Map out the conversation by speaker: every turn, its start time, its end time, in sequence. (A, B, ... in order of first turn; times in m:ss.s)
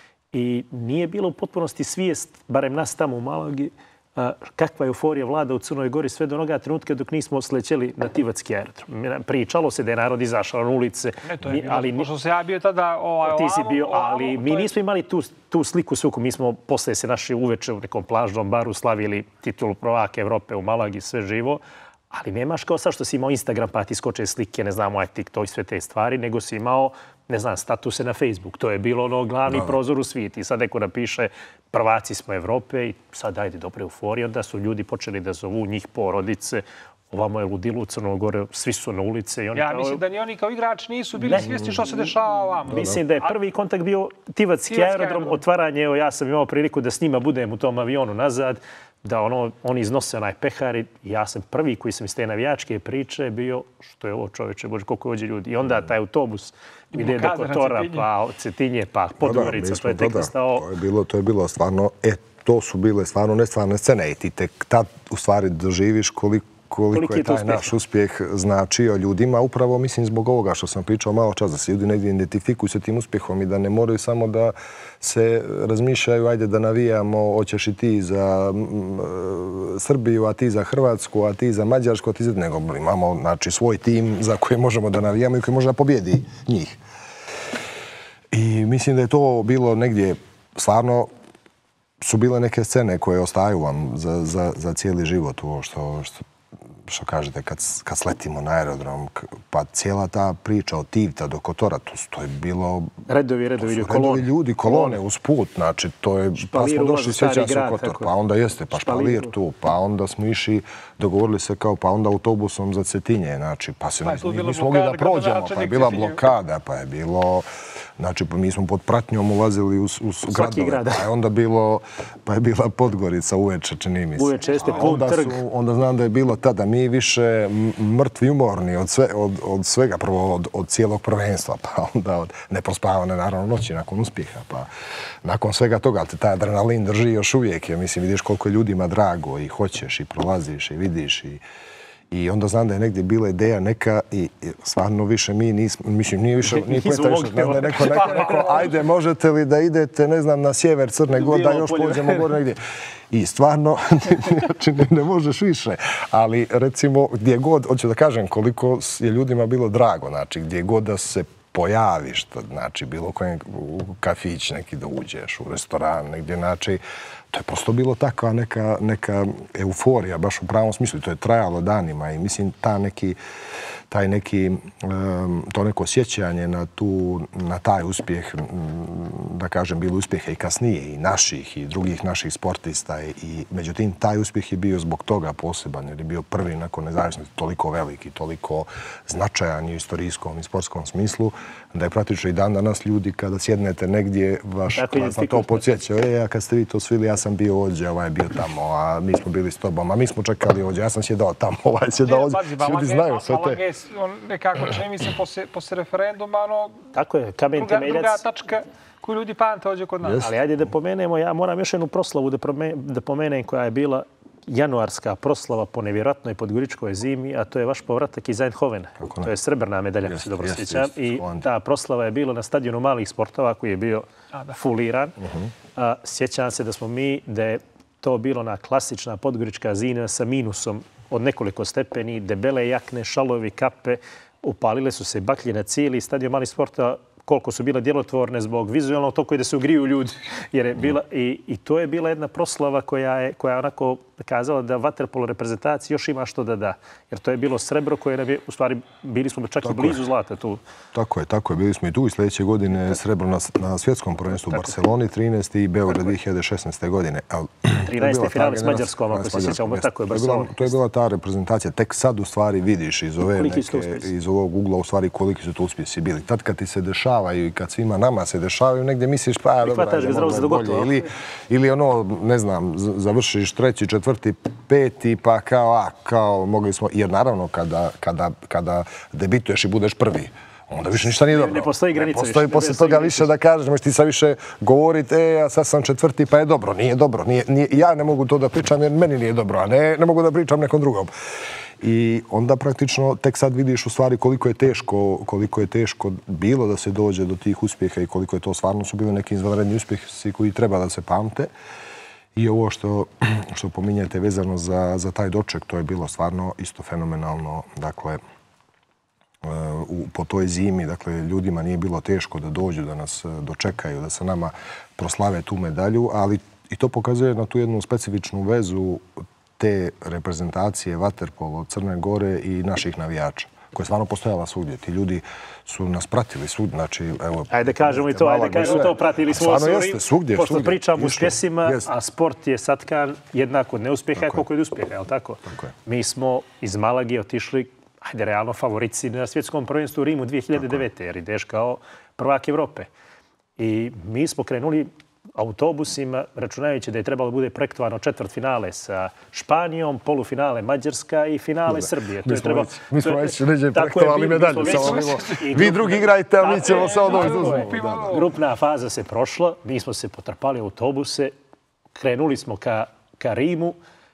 0:00.3-0:12.1 A
0:11.3-0:14.7 B
0:13.2-0:40.0 A
0:39.5-0:43.3 B
0:41.2-0:41.9 A
0:42.7-1:00.6 A
0:44.7-0:45.4 B
0:56.9-0:58.0 B
0:59.2-1:26.8 C
1:06.9-1:07.7 A
1:28.3-1:31.1 C
1:32.0-1:36.2 C
1:36.8-1:42.9 C
1:43.1-1:45.0 A
1:43.6-1:57.5 C
1:46.4-1:48.1 A
1:48.7-1:49.3 A
1:54.0-1:56.2 B
1:58.0-2:14.7 C
2:00.3-2:01.0 A
2:04.2-2:05.4 A
2:04.5-2:05.0 B
2:15.2-2:21.4 C
2:22.1-2:32.6 C
2:26.5-2:28.5 A
2:27.8-2:28.8 B
2:31.1-2:32.4 A
2:33.1-2:53.2 C
2:53.9-3:23.6 C
3:14.8-3:15.6 A
3:22.0-3:26.8 B
3:26.9-3:28.2 A
3:27.6-3:30.2 B
3:30.0-3:30.3 C
3:30.2-3:45.2 A
3:39.0-3:39.3 C
3:40.0-3:41.5 C
3:45.2-3:45.5 C
3:45.7-4:10.6 A
4:09.6-4:10.0 C
4:10.9-4:51.1 C
4:17.8-4:20.7 A
4:23.3-4:24.1 A
4:29.6-4:31.0 A
4:41.2-4:43.3 A
4:51.8-5:01.5 C
5:02.3-5:08.2 C
5:09.4-5:31.9 C
5:27.5-5:42.9 A
5:34.2-5:34.4 C
5:35.4-5:35.7 C
5:43.6-6:01.3 A
5:51.7-5:58.1 C
5:54.6-5:55.4 B
5:56.4-5:58.3 B
6:02.0-6:03.8 A